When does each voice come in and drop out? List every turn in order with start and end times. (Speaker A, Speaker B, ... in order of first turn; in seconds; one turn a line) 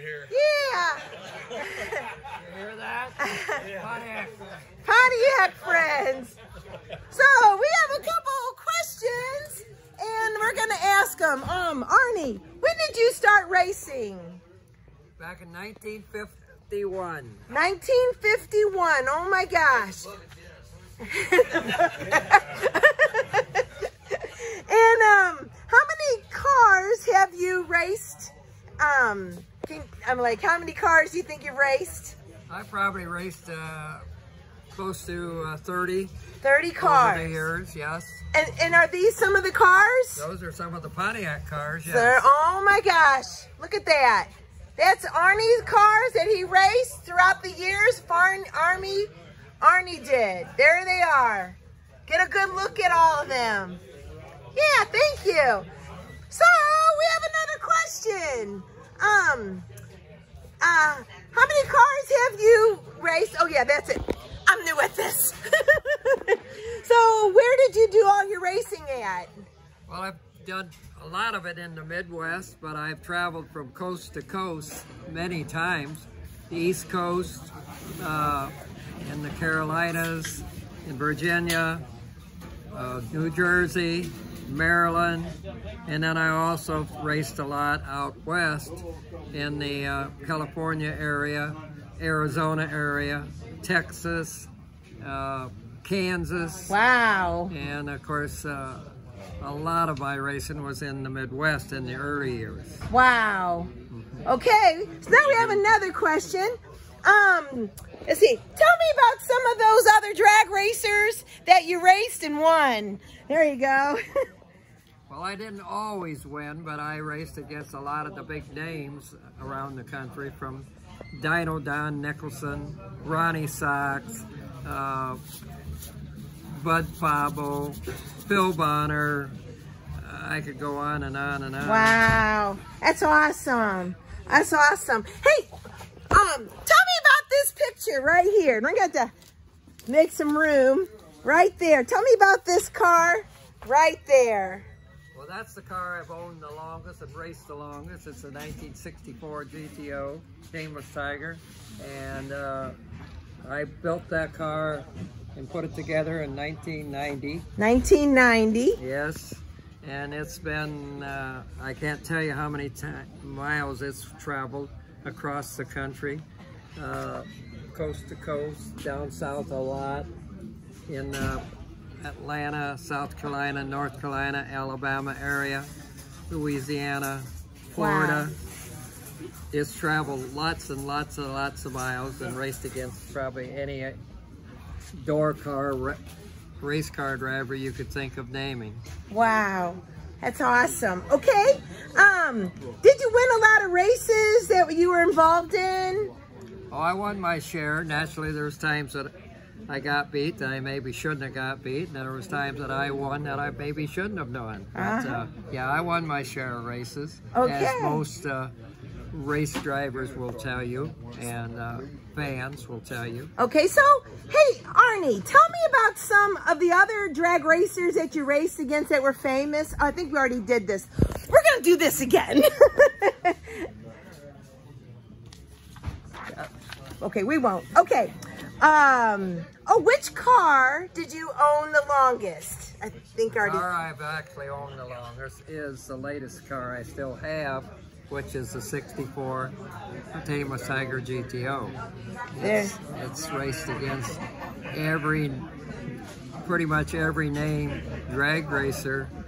Speaker A: 0.3-1.0
Speaker A: 1.5-2.0
Speaker B: 2.4-4.5
Speaker A: 3.2-3.6
Speaker A: 4.8-6.4
Speaker A: 7.1-14.4
Speaker B: 15.2-17.4
Speaker A: 17.5-20.1
Speaker A: 21.1-23.6
Speaker A: 24.2-32.1
Speaker B: 32.5-34.0
Speaker B: 34.7-36.1
Speaker A: 36.4-37.5
Speaker B: 36.8-38.2
Speaker A: 38.3-40.2
Speaker B: 40.1-42.2
Speaker A: 41.8-49.1
Speaker A: 49.6-53.8
Speaker A: 54.5-55.7
Speaker A: 56.3-59.7
Speaker A: 60.6-69.3
Speaker B: 69.9-81.8
Speaker B: 82.7-85.3
Speaker B: 85.8-94.5
Speaker B: 95.0-96.8
Speaker A: 96.7-97.5
Speaker B: 97.5-102.9
Speaker A: 102.9-103.7
Speaker B: 103.9-104.2
Speaker A: 104.2-106.5
Speaker A: 107.0-114.0
Speaker B: 115.1-125.2
Speaker B: 126.5-129.3
Speaker B: 130.0-132.0
Speaker A: 131.6-135.5
Speaker A: 136.1-139.1
Speaker A: 139.9-144.7
Speaker B: 145.1-152.8
Speaker B: 153.4-157.4
Speaker A: 157.6-158.8
Speaker B: 158.8-166.2
Speaker B: 166.8-170.1
Speaker B: 170.9-171.4
Speaker B: 172.0-175.7
Speaker B: 176.3-178.4
Speaker A: 177.8-178.3
Speaker B: 179.5-184.0
Speaker B: 185.0-186.0
Speaker B: 186.6-188.8
Speaker A: 189.1-196.1
Speaker B: 196.7-199.1
Speaker B: 199.7-208.5
Speaker A: 204.7-205.2
Speaker A: 207.3-208.0
Speaker B: 209.1-213.3
Speaker A: 213.4-223.7
Speaker A: 227.0-233.7
Speaker B: 233.3-239.6
Speaker B: 240.1-241.8
Speaker A: 242.4-242.8
Speaker B: 242.4-244.2
Speaker B: 244.7-245.5
Speaker B: 246.4-249.1